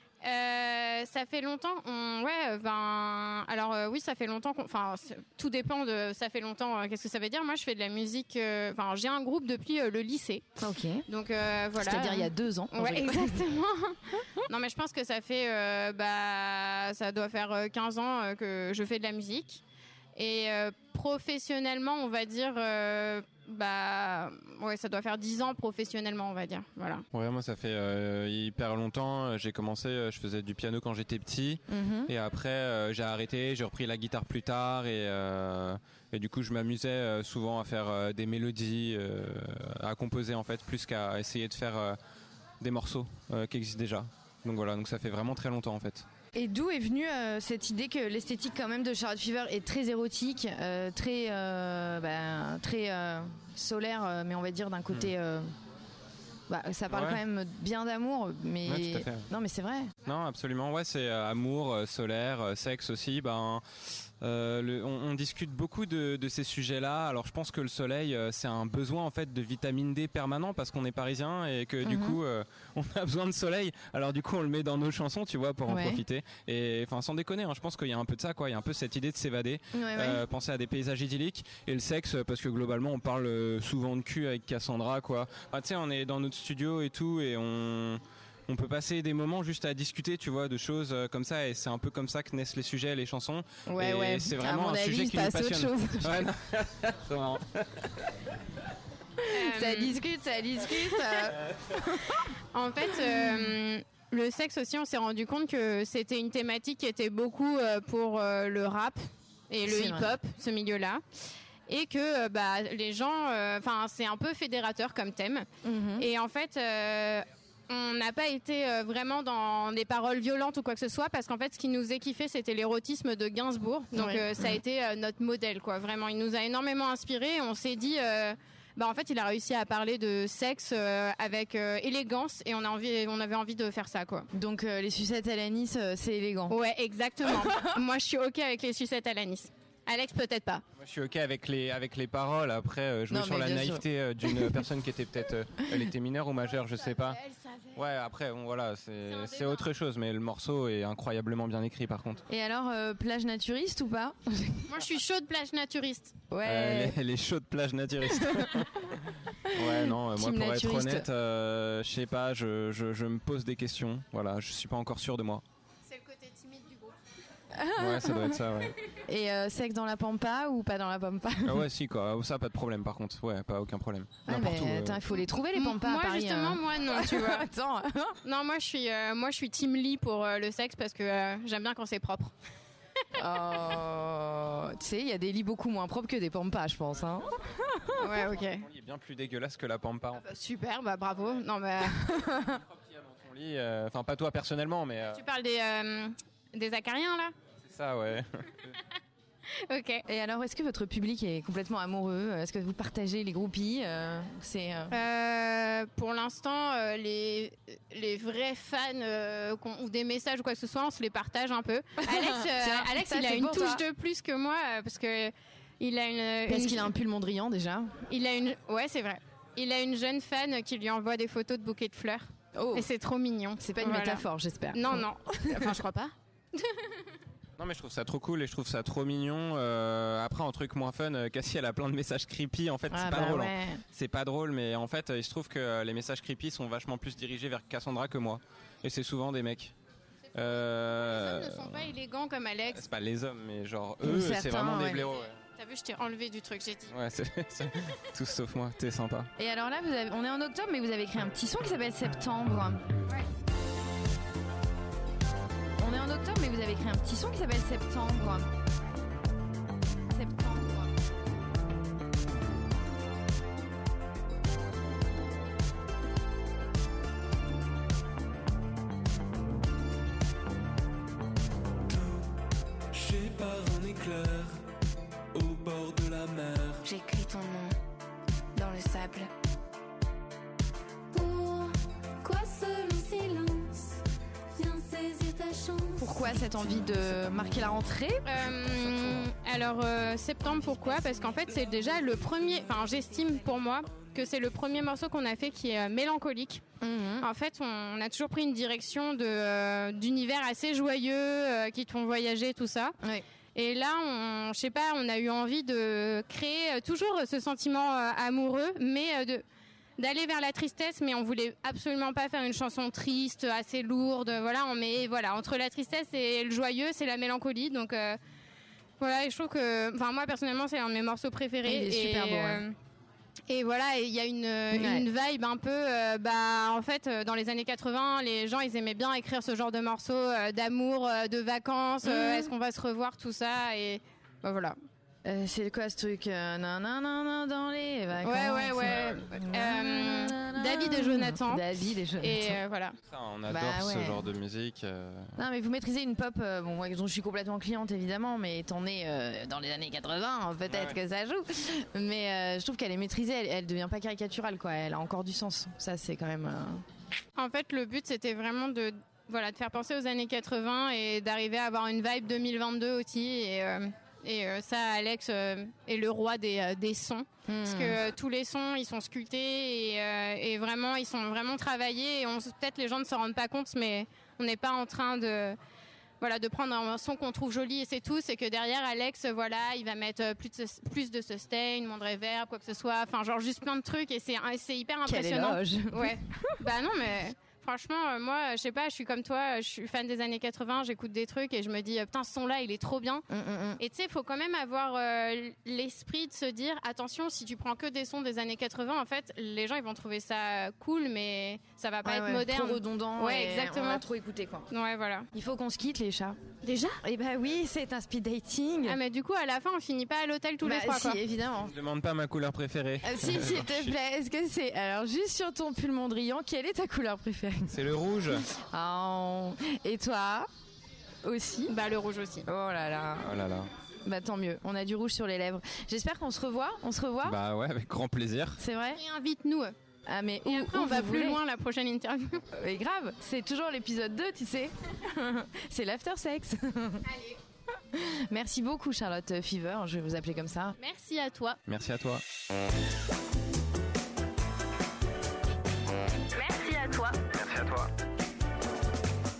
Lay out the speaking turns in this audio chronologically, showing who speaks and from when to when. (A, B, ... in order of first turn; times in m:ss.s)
0:00.2-0:10.4 A
0:10.6-0:11.0 B
0:11.1-0:19.6 A
0:11.7-0:13.5 B
0:20.1-0:27.0 A
0:27.1-0:42.0 C
0:31.7-0:32.1 B
0:42.6-0:46.0 C
0:46.3-0:55.5 B
0:56.5-0:59.9 B
0:56.9-0:57.2 C
0:58.6-0:59.3 C
1:00.0-1:38.1 C
1:11.8-1:12.2 B
1:15.7-1:16.0 B
1:19.7-1:20.2 B
1:33.6-1:36.3 B
1:39.2-1:42.2 B
1:39.3-1:40.0 A
1:42.5-1:51.0 A
1:49.6-1:50.1 B
1:51.7-2:14.3 A
1:55.6-1:56.1 B
2:03.9-2:04.4 B
2:14.3-2:16.6 B
2:16.5-2:20.6 A
2:17.3-2:17.7 B
2:20.8-2:27.2 C
2:23.1-2:24.6 B
2:27.0-2:27.8 A
2:27.7-2:32.2 C
2:29.1-2:29.7 A
2:32.3-2:34.7 B
2:34.7-2:36.1 A
2:36.3-2:37.0 B
2:36.4-2:45.4 C
2:38.2-2:38.5 B
2:39.4-2:41.1 B
2:45.9-2:46.9 A
2:47.5-2:48.4 B
2:47.8-2:48.7 C
2:49.0-2:51.6 B
2:51.4-2:55.0 C
2:54.2-2:58.2 B
2:55.5-2:57.5 A
2:58.2-3:02.3 A
3:03.2-3:08.0 B
3:08.0-3:08.6 A
3:08.1-3:10.2 C
3:10.2-3:12.0 A
3:11.8-3:12.6 B
3:12.4-3:15.2 C
3:15.1-3:17.3 A
3:17.6-3:18.8 C
3:19.5-3:20.0 A
3:20.0-3:25.0 B
3:24.9-3:36.9 A
3:32.0-3:33.8 B
3:36.4-3:37.9 B
3:38.1-3:47.1 A
3:42.5-3:42.9 B
3:43.6-3:45.8 B
3:47.6-3:59.7 C
3:52.9-3:53.8 B
4:00.3-4:01.9 C
4:00.5-4:02.8 A
4:02.7-4:05.4 C
4:04.0-4:05.1 B
4:05.4-4:07.0 A
4:06.9-4:09.3 C
4:09.4-4:12.8 B
4:15.8-4:18.5 B
4:20.1-4:20.9 B
4:32.9-4:34.3 D
4:34.0-4:34.6 C
4:35.3-4:36.8 D
4:35.7-4:36.1 C
4:41.1-4:44.0 E
4:44.6-4:46.2 E
4:46.0-4:49.3 B
4:48.2-4:56.6 A
4:56.8-4:57.3 B
4:57.2-5:03.0 A
5:03.5-5:09.4 A
5:10.0-5:18.2 A
5:19.0-5:22.8 A
5:21.6-5:22.6 B
5:23.5-5:34.8 A
5:24.7-5:25.1 B
5:32.0-5:32.5 B
5:35.2-5:42.6 B
5:38.2-5:41.7 A
5:42.2-5:43.0 A
5:43.1-5:45.4 C
5:43.5-5:44.3 B
5:45.4-5:56.8 B
5:50.7-5:51.0 C
5:57.3-6:15.6 A
6:07.5-6:08.0 B
6:16.2-6:33.2 A
6:25.0-6:26.6 B
6:33.3-6:33.8 B
6:33.8-6:44.0 A
6:42.0-6:44.7 B
6:44.7-6:45.3 A
6:45.3-6:46.4 B
6:46.6-6:47.0 A
6:47.0-6:49.0 B
6:48.8-6:51.2 A
6:50.6-6:51.8 B
6:51.6-6:53.9 C
6:53.0-7:00.5 B
6:57.7-6:58.4 C
7:01.2-7:01.7 B
7:01.7-7:02.5 A
7:02.4-7:03.4 B
7:03.2-7:03.7 C
7:04.0-7:07.4 B
7:07.2-7:08.6 C
7:08.6-7:09.0 B
7:08.9-7:09.7 A
7:10.1-7:11.4 B
7:10.4-7:12.4 A
7:12.5-7:17.0 B
7:17.1-7:17.4 A
7:17.9-7:20.8 B
7:20.8-7:21.6 A
7:21.7-7:22.2 C
7:26.3-7:27.2 A
7:27.3-7:27.9 C